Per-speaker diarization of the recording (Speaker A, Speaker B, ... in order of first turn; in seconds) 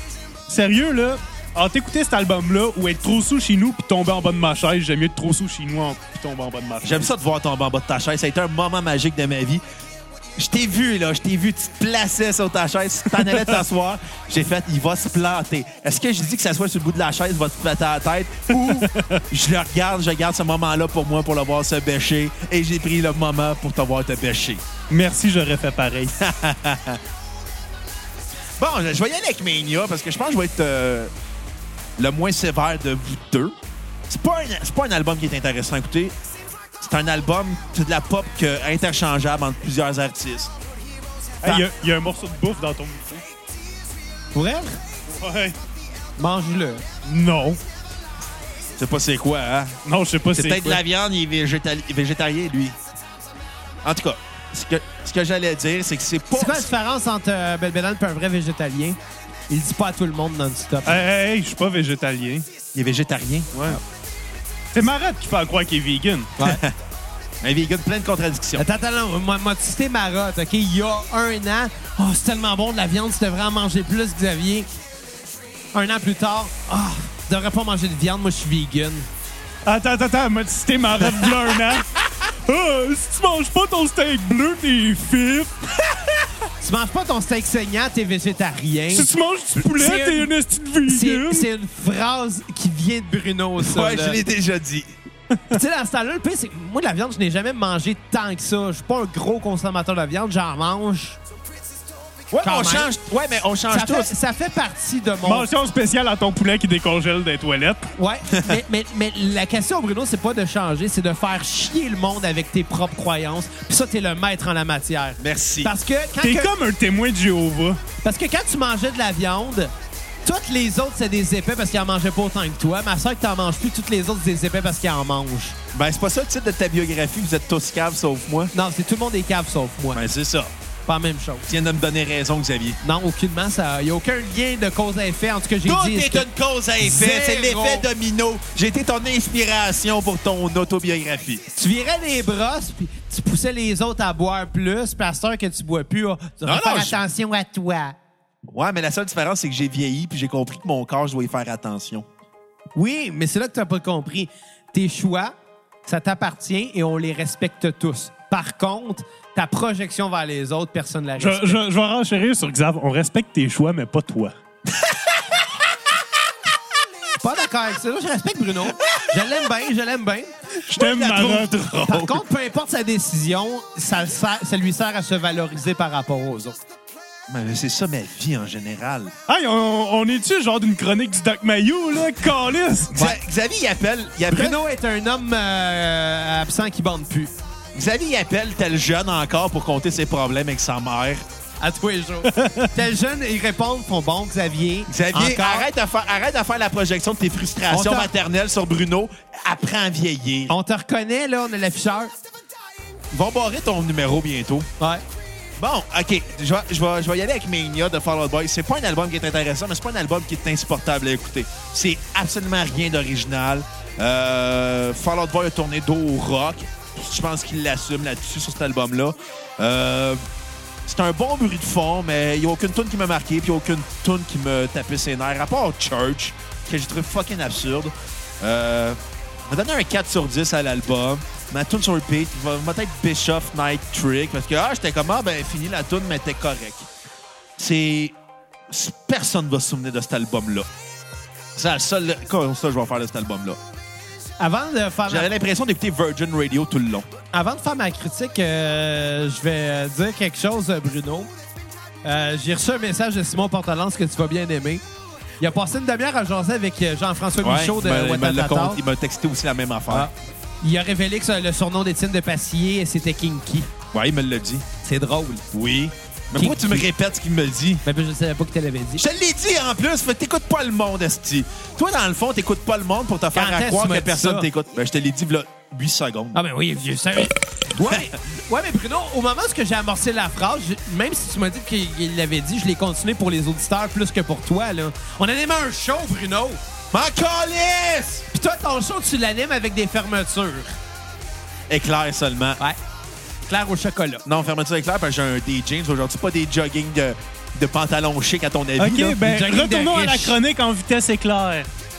Speaker A: 0.5-7.1, 13.3-13.6, 18.6-19.2, 24.9-26.1, 41.4-43.2, 45.1-45.6, 47.0-47.6, 49.9-50.8, 60.9-62.5, 63.5-63.8, 64.7-66.3, 79.7-86.2, 88.9-91.5, 105.2-107.9, 116.2-117.8, 161.2-164.3, 170.7-171.6, 179.3-183.0, 192.3-192.7, 298.8-301.7
Speaker B: 6.8-9.6, 10.4-24.6, 26.2-27.0, 28.6-31.1, 32.0-33.5, 34.1-36.1, 36.8-40.5, 48.8-49.8, 50.3-52.8, 53.8-56.7, 62.7-63.8, 66.4-66.8, 67.4-68.7, 93.6-95.0, 102.3-104.1, 108.3-108.6, 115.2-115.7, 125.7-128.5, 129.9-130.5, 131.5-132.8, 135.7-141.4, 146.4-147.0, 148.5-152.1, 170.7-172.2, 177.3-179.1, 182.9-184.6, 187.8-191.2, 194.9-200.5, 203.1-204.7, 205.6-220.2, 220.9-236.9, 237.6-238.2, 238.7-240.7, 241.6-243.6, 245.1-247.1, 257.4-260.1, 263.9-264.7, 265.5-267.8, 269.0-276.4, 286.9-288.3, 291.7-292.6, 294.3-299.2
Speaker C: 44.3-44.8, 46.2-46.9, 56.3-59.0, 59.5-61.0, 68.5-74.7, 75.7-79.1, 86.6-89.1, 89.6-90.3, 90.8-94.2, 95.5-101.2, 102.4-102.9, 103.7-105.5, 108.0-116.5, 118.0-119.7, 120.2-125.6, 128.5-130.0, 130.9-131.5, 132.8-136.3, 136.8-137.9, 141.6-148.0, 152.8-155.3, 155.9-161.6, 167.2-170.3, 171.8-176.6, 184.3-187.3, 191.6-195.7, 197.7-198.1, 200.5-202.1, 244.4-245.3, 247.3-251.3, 252.0-254.8, 255.4-258.8, 259.9-263.7, 264.8-265.4, 266.3-266.9, 267.9-269.1, 273.3-274.5, 276.3-286.6, 288.3-290.8, 293.4-294.2, 299.2-300.4